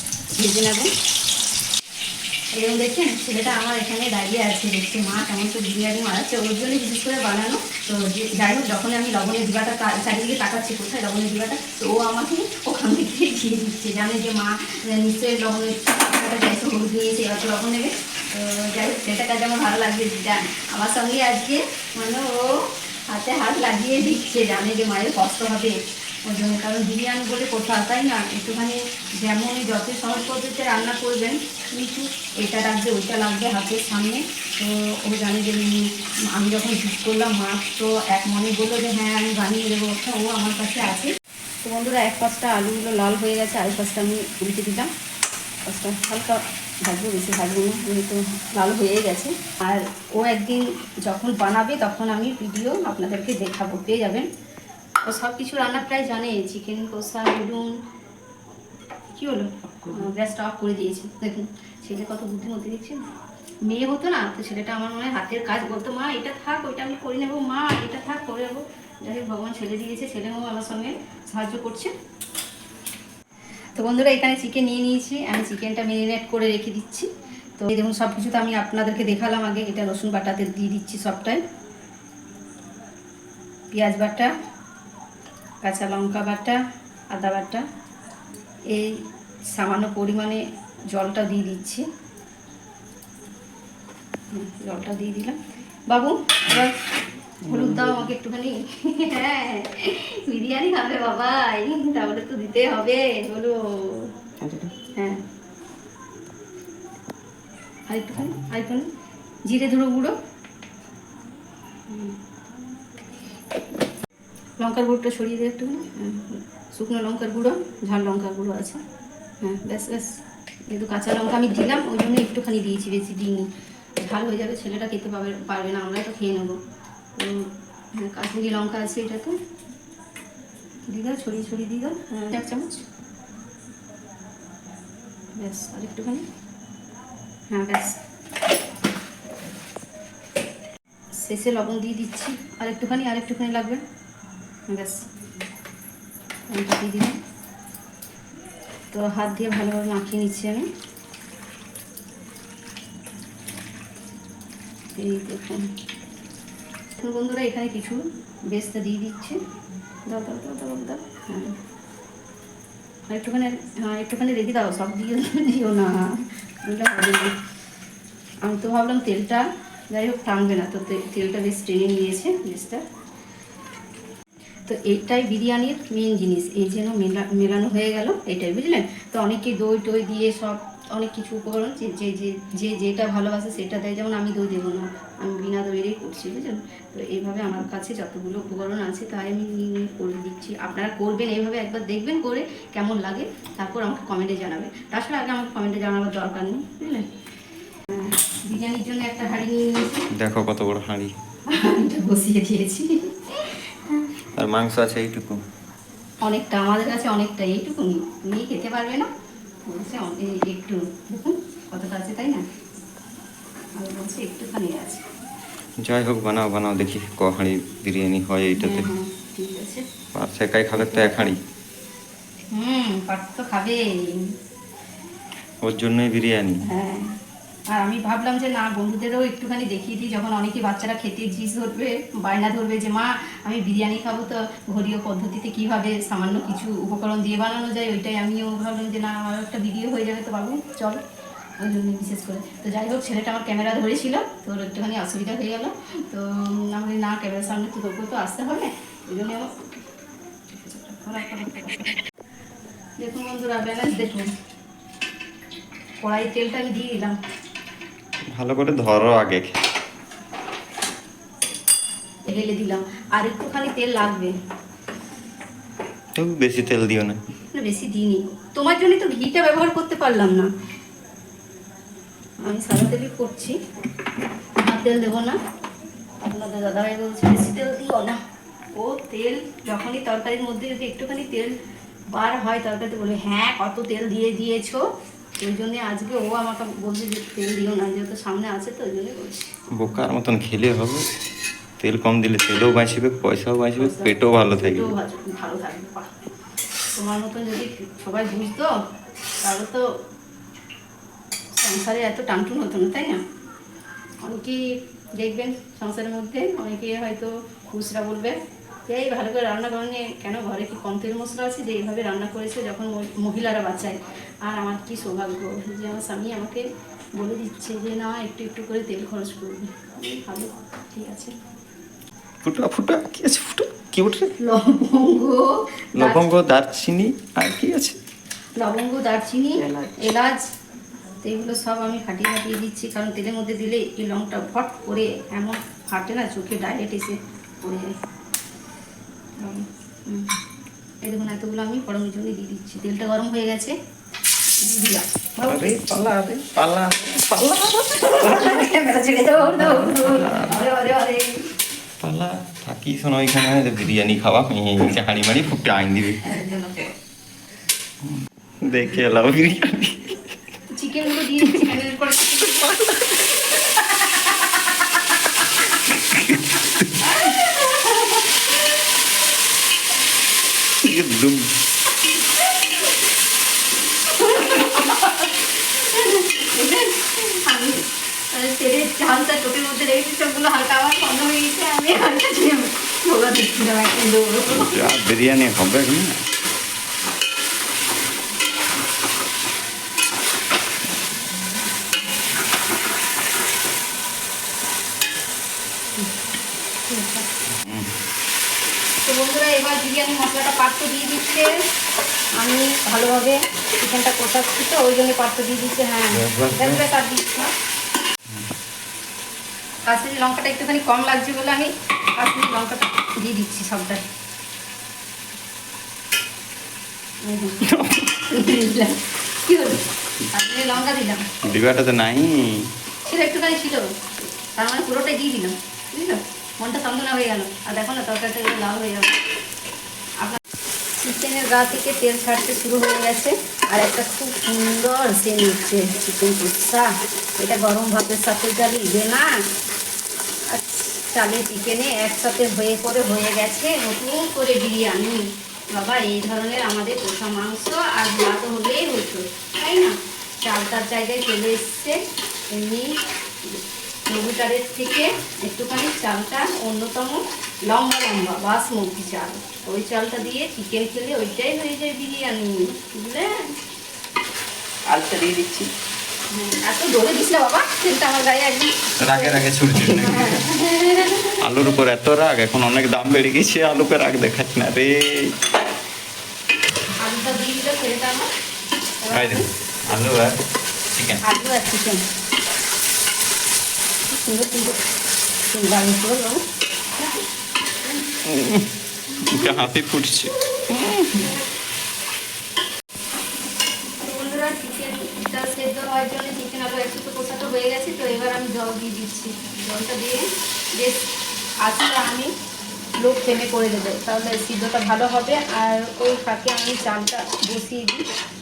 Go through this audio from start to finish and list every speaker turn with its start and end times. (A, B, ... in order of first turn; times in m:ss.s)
0:00.3-0:00.9 A
0:02.6-0:25.8 A
0:26.3-0:41.1 A
0:41.6-0:44.9 A
0:45.7-0:54.3 A
0:55.0-0:57.7 A
0:59.2-1:03.0 A
1:03.7-1:11.9 A
1:13.8-1:21.4 A
1:23.7-1:24.3 A
1:25.6-1:26.6 A
1:27.1-1:27.6 A
1:28.7-1:29.0 A
1:29.5-1:30.4 A
1:30.9-1:31.8 A
1:34.3-1:35.4 A
1:35.9-1:36.8 A
1:37.4-1:38.0 B
1:37.4-1:44.1 A
1:44.4-1:44.7 B
1:45.0-1:45.2 A
1:47.9-1:48.9 A
1:49.5-1:50.1 A
1:51.9-1:52.2 A
1:54.6-1:58.8 A
1:59.4-2:00.2 A
2:00.7-2:03.5 A
2:04.0-2:06.6 A
2:07.2-2:09.4 A
2:10.9-2:12.8 A
2:15.4-2:16.2 A
2:17.5-2:18.0 A
2:21.2-2:23.8 A
2:24.7-2:25.0 A
2:26.5-2:27.2 A
2:28.9-2:30.6 A
2:35.0-2:35.7 A
2:37.0-2:39.4 A
2:40.1-2:41.6 A
2:43.1-2:47.4 A
2:48.4-2:52.8 A
2:54.7-3:17.1 A
3:17.9-3:20.0 A
3:20.1-3:21.1 C
3:21.5-3:24.2 A
3:24.4-3:25.4 C
3:26.2-3:29.1 A
3:29.7-3:32.4 A
3:33.8-3:35.0 A
3:35.8-3:38.9 C
3:38.6-3:39.8 A
3:40.1-3:41.4 C
3:40.8-3:41.3 A
3:42.5-3:44.3 A
3:45.6-3:46.6 C
3:46.6-3:47.1 A
3:47.7-4:01.0 A
4:01.6-4:09.7 A
4:10.5-4:12.0 A
4:13.0-4:14.3 A
4:16.0-4:17.2 A
4:18.4-4:19.6 C
4:22.3-4:24.3 A
4:26.2-4:27.2 C
4:27.5-4:30.5 A
4:32.4-4:33.6 A
4:34.6-4:35.4 A
4:36.2-4:38.2 A
4:38.8-4:41.5 A
4:42.1-4:44.8 A
4:45.4-4:49.5 A
4:49.7-4:51.1 C
4:51.8-4:54.9 C
4:53.8-4:56.1 A
4:57.0-4:58.7 A
4:59.4-4:59.9 A
5:01.6-5:03.2 A
5:04.2-5:04.6 A
5:05.2-5:08.4 A
5:08.9-5:16.6 A
5:17.2-5:21.4 A
5:22.4-5:24.3 C
5:24.4-5:26.3 A
5:26.0-5:28.0 C
5:28.6-5:30.4 A
5:29.7-5:29.9 B
5:31.2-5:37.9 A
5:39.4-5:40.3 A
5:41.0-5:43.8 A
5:44.6-5:45.8 A
5:45.5-5:48.5 C
5:47.9-5:51.4 A
5:49.5-5:50.6 C
5:52.0-5:56.2 C
5:56.2-5:56.9 A
5:58.6-6:00.2 C
6:00.7-6:02.8 A
6:02.6-6:03.0 C
6:03.6-6:04.3 A
6:06.1-6:06.7 C
6:06.7-6:08.6 A
6:10.8-6:11.5 C
6:14.0-6:24.9 A
6:24.5-6:26.2 C
6:36.9-6:37.3 A
6:37.5-6:37.9 C
6:39.0-6:41.5 A
6:42.4-6:47.5 A
6:46.1-6:46.8 C
6:49.9-6:54.0 A
6:57.2-6:57.6 A
6:57.6-6:58.2 C
6:58.1-7:01.2 A
7:01.4-7:02.7 C
7:03.0-7:03.8 A
7:04.6-7:09.1 A
7:11.0-7:19.3 A
7:20.5-7:32.0 A
7:32.5-7:32.9 A
7:33.4-7:43.4 A
7:44.9-7:45.7 B
7:46.3-7:51.4 A
7:49.0-7:50.6 C
7:51.4-7:55.3 C
7:57.0-7:58.3 A
7:59.0-7:59.5 A
7:59.1-8:00.4 C
8:00.9-8:01.2 C
8:01.2-8:02.0 A
8:04.2-8:04.8 A
8:05.5-8:06.4 A
8:07.8-8:08.1 A
8:08.3-8:08.7 C
8:09.2-8:09.6 A
8:09.2-8:11.3 C
8:14.0-8:20.2 A
8:20.8-8:21.1 A
8:21.6-8:22.3 A
8:23.0-8:28.0 A